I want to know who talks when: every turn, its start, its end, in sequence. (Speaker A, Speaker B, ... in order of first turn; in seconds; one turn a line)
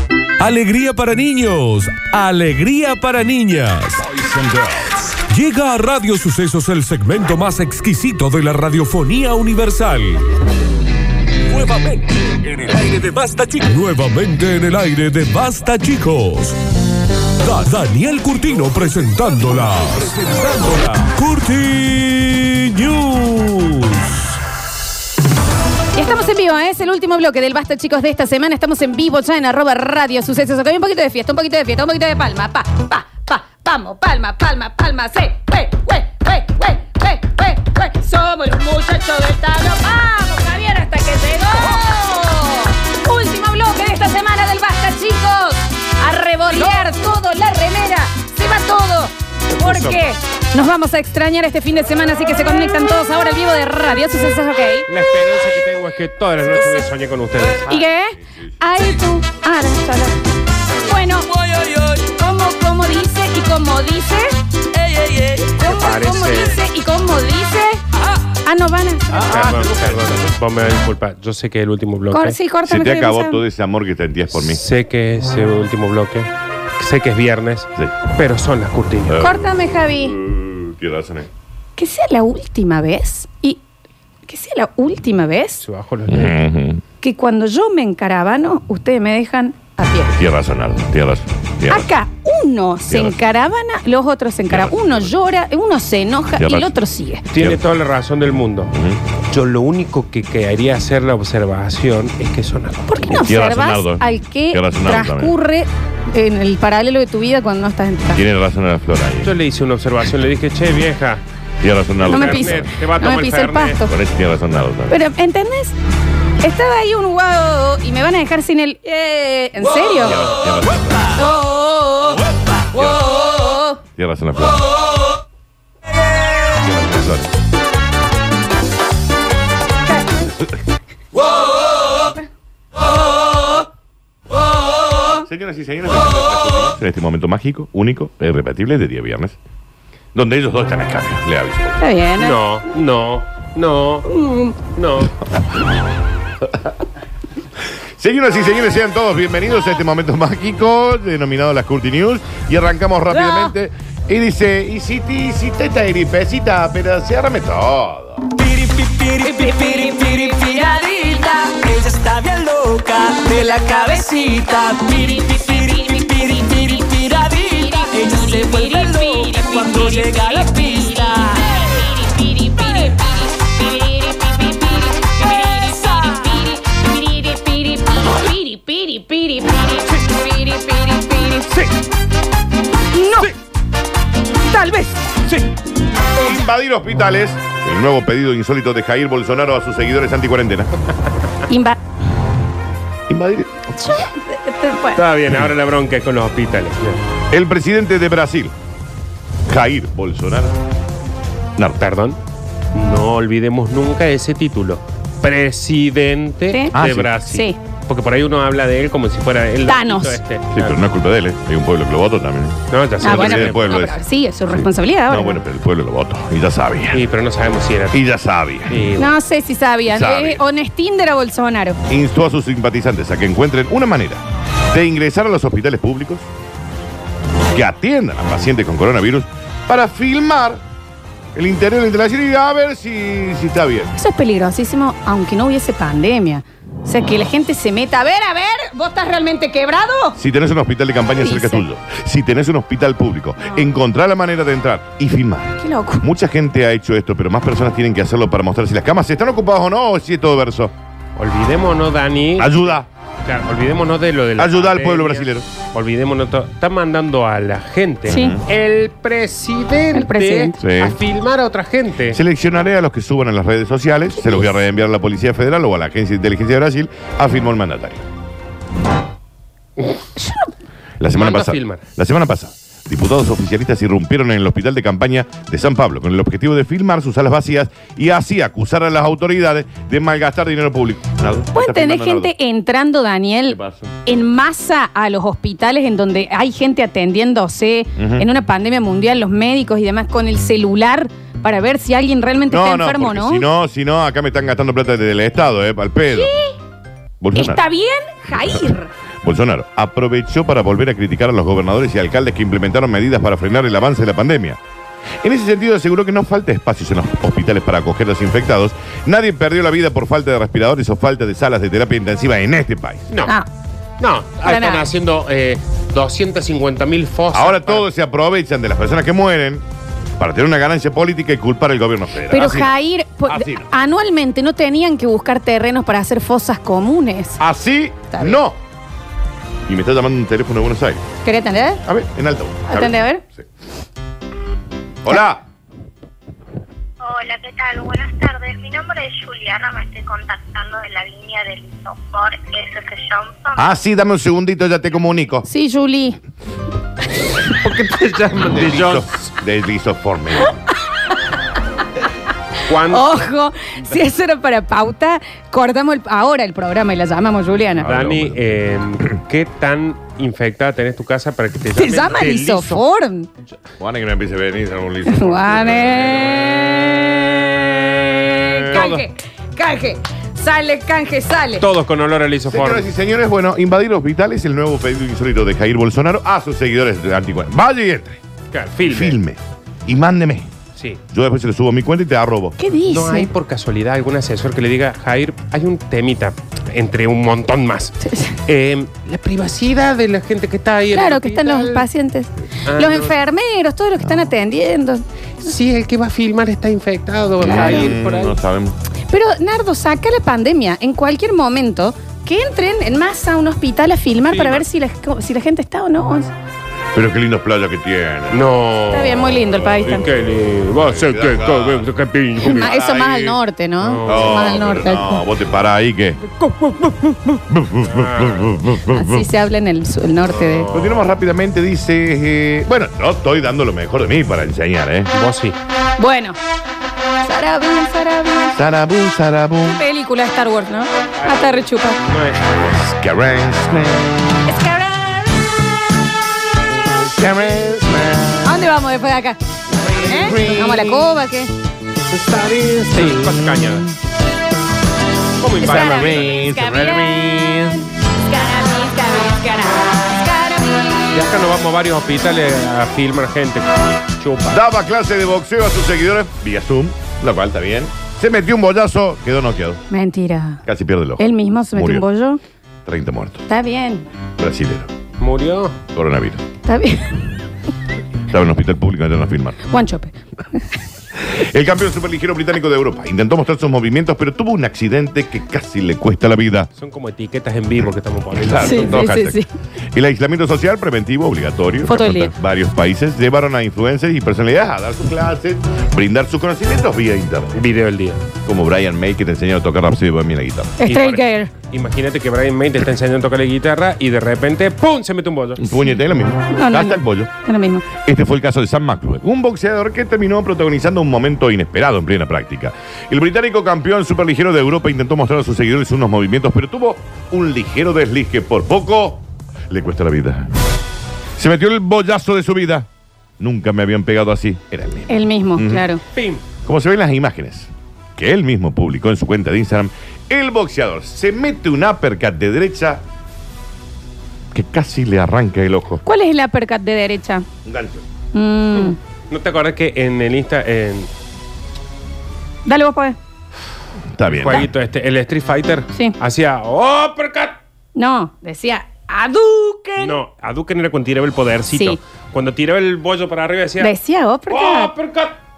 Speaker A: 0.4-10.2
Speaker A: 11.5-16.6
Speaker A: 17.4-24.3
Speaker B: 25.9-54.9
Speaker C: 49.5-50.1
Speaker C: 54.9-57.7
Speaker B: 57.7-60.2
Speaker D: 57.7-58.5
Speaker B: 60.9-64.3
Speaker B: 65.4-67.8
Speaker C: 65.6-66.6
Speaker B: 68.4-69.3
Speaker D: 69.1-70.3
Speaker C: 69.2-72.4
Speaker B: 72.1-73.4
Speaker D: 72.7-74.6
Speaker C: 74.3-79.3
Speaker D: 79.1-81.3
Speaker B: 79.2-80.2
Speaker B: 81.8-83.6
Speaker B: 84.3-85.6
Speaker C: 85.6-86.4
Speaker D: 86.1-86.8
Speaker B: 87.0-90.2
Speaker D: 90.1-91.9
Speaker B: 91.7-97.2
Speaker D: 92.9-93.2
Speaker D: 94.5-95.1
Speaker D: 96.4-96.8
Speaker C: 97.3-98.7
Speaker D: 97.3-97.6
Speaker D: 98.7-99.0
Speaker C: 99.3-103.0
Speaker B: 102.8-108.2
Speaker D: 103.0-105.3
Speaker D: 108.1-109.3
Speaker C: 109.2-111.2
Speaker D: 111.6-112.7
Speaker C: 112.0-113.8
Speaker B: 112.1-113.9
Speaker D: 113.8-115.0
Speaker B: 114.9-115.8
Speaker B: 116.4-120.3
Speaker D: 120.0-121.2
Speaker B: 121.1-123.8
Speaker D: 122.7-123.1
Speaker D: 124.0-124.6
Speaker D: 126.6-127.3
Speaker B: 129.9-130.3
Speaker D: 135.2-139.3
Speaker D: 140.1-141.8
Speaker B: 141.8-142.4
Speaker C: 142.2-144.1
Speaker B: 144.2-144.5
Speaker C: 144.6-145.1
Speaker D: 148.0-158.3
Speaker B: 153.2-153.5
Speaker E: 158.4-171.2
Speaker B: 159.2-161.6
Speaker B: 163.3-181.5
Speaker B: 182.9-183.3
Speaker B: 184.4-185.2
Speaker D: 186.2-190.7
Speaker B: 191.5-191.8
Speaker D: 193.1-194.1
Speaker B: 193.8-195.0
Speaker C: 194.9-197.0
Speaker D: 197.3-198.5
Speaker D: 199.5-200.5
Speaker D: 201.6-201.8
Speaker C: 201.8-202.2
Speaker C: 202.7-210.8
Speaker D: 206.7-207.1
Speaker B: 207.3-207.6
Speaker B: 209.7-210.2
Speaker D: 210.5-217.0
Speaker C: 212.7-213.8
Speaker B: 213.0-215.4
Speaker C: 216.9-218.0
Speaker D: 217.9-218.8
Speaker C: 218.7-219.2
Speaker B: 219.0-221.8
Speaker D: 219.9-220.4
Speaker D: 221.9-226.3
Speaker D: 227.5-230.6
Speaker D: 231.3-233.9
Speaker B: 233.9-240.2
Speaker D: 240.2-250.7
Speaker B: 241.1-241.6
Speaker B: 243.4-243.7
Speaker B: 245.6-246.0
Speaker C: 251.2-252.6
Speaker D: 252.4-252.9
Speaker C: 253.2-262.2
Speaker D: 254.4-255.5
Speaker D: 258.1-258.4
Speaker B: 258.1-258.4
Speaker B: 259.9-260.6
Speaker D: 260.6-261.0
Speaker D: 262.1-268.0
Speaker B: 264.2-264.5
Speaker D: 271.0-282.3
Speaker C: 271.1-271.8
Speaker B: 281.5-293.5
Speaker D: 283.5-283.9
Speaker D: 287.9-288.2
Speaker D: 292.5-296.3
Speaker B: 296.1-296.6
Speaker D: 297.2-297.6
Speaker B: 297.3-298.9
Speaker D: 298.3-304.6
Speaker D: 305.2-313.1
Speaker C: 314.0-317.9
Speaker B: 314.4-314.9
Speaker D: 317.3-319.6
Speaker D: 320.2-322.7
Speaker B: 322.3-327.4
Speaker D: 323.3-323.7
Speaker D: 327.4-328.6
Speaker B: 328.1-328.4
Speaker D: 329.7-331.0
Speaker B: 331.2-331.8
Speaker D: 331.8-333.4
Speaker B: 332.7-333.2
Speaker D: 335.0-335.4
Speaker F: 337.0-343.6
Speaker D: 343.6-345.4
Speaker B: 345.4-346.2
Speaker C: 347.5-349.1
Speaker D: 348.4-350.6
Speaker C: 352.6-353.1
Speaker B: 352.9-357.9
Speaker D: 357.8-358.6
Speaker C: 357.8-362.8
Speaker B: 361.7-363.3
Speaker D: 363.8-366.5
Speaker B: 365.1-371.6
Speaker C: 368.4-369.0
Speaker C: 371.6-372.9
Speaker D: 372.5-378.2
Speaker C: 378.5-379.2
Speaker D: 378.8-380.5
Speaker D: 381.1-382.6
Speaker B: 382.6-383.3
Speaker C: 382.8-391.8
Speaker B: 388.1-388.4
Speaker B: 390.9-395.0
Speaker C: 392.6-393.1
Speaker C: 395.4-398.4
Speaker D: 397.4-398.8
Speaker B: 397.4-397.9
Speaker B: 399.1-406.3
Speaker C: 404.3-404.6
Speaker D: 406.9-408.5
Speaker C: 408.3-409.2
Speaker B: 408.9-410.0
Speaker D: 409.2-413.4
Speaker C: 409.8-412.7
Speaker B: 412.4-415.2
Speaker C: 413.8-414.6
Speaker D: 414.0-416.2
Speaker B: 416.4-417.2
Speaker D: 417.3-419.2
Speaker C: 417.8-418.6
Speaker B: 418.9-420.7
Speaker C: 420.3-421.1
Speaker D: 420.7-425.1
Speaker C: 425.1-425.6
Speaker B: 426.0-426.4
Speaker B: 427.2-428.6
Speaker D: 428.5-429.8
Speaker B: 429.6-432.0
Speaker C: 431.2-432.6
Speaker D: 432.6-434.3
Speaker B: 434.4-435.6
Speaker D: 436.9-438.6
Speaker B: 438.4-441.5
Speaker D: 439.9-441.1
Speaker C: 442.1-443.9
Speaker D: 442.9-443.8
Speaker C: 445.4-446.4
Speaker B: 445.6-447.7
Speaker D: 445.6-447.9
Speaker B: 448.3-451.2
Speaker C: 451.1-454.6
Speaker D: 454.5-459.8
Speaker B: 459.9-460.6
Speaker D: 460.6-462.0
Speaker B: 461.2-462.4
Speaker D: 462.9-463.4
Speaker B: 463.5-464.1
Speaker D: 464.4-464.9
Speaker C: 465.2-465.8
Speaker D: 465.9-466.4
Speaker B: 466.6-467.4
Speaker D: 468.3-469.6
Speaker B: 469.7-470.8
Speaker D: 471.2-476.7
Speaker C: 476.8-479.0
Speaker D: 478.3-479.4
Speaker B: 478.6-479.5
Speaker D: 479.9-487.5
Speaker B: 481.9-482.3
Speaker C: 487.5-488.2
Speaker D: 488.4-490.8
Speaker B: 490.8-491.5
Speaker C: 490.8-495.7
Speaker D: 495.6-497.3
Speaker B: 496.5-497.8
Speaker D: 497.9-510.5
Speaker D: 511.4-512.9
Speaker D: 513.4-515.9
Speaker B: 515.1-516.0
Speaker C: 516.1-516.4
Speaker D: 516.6-523.0
Speaker D: 524.5-526.0
Speaker B: 526.0-527.5
Speaker D: 527.6-528.0
Speaker B: 528.3-529.0
Speaker C: 528.8-531.1
Speaker B: 532.6-533.2
Speaker D: 534.1-534.7
Speaker C: 534.2-537.6
Speaker B: 538.0-540.2
Speaker C: 540.0-543.9
Speaker B: 541.7-542.0
Speaker B: 543.8-544.9
Speaker C: 544.5-545.4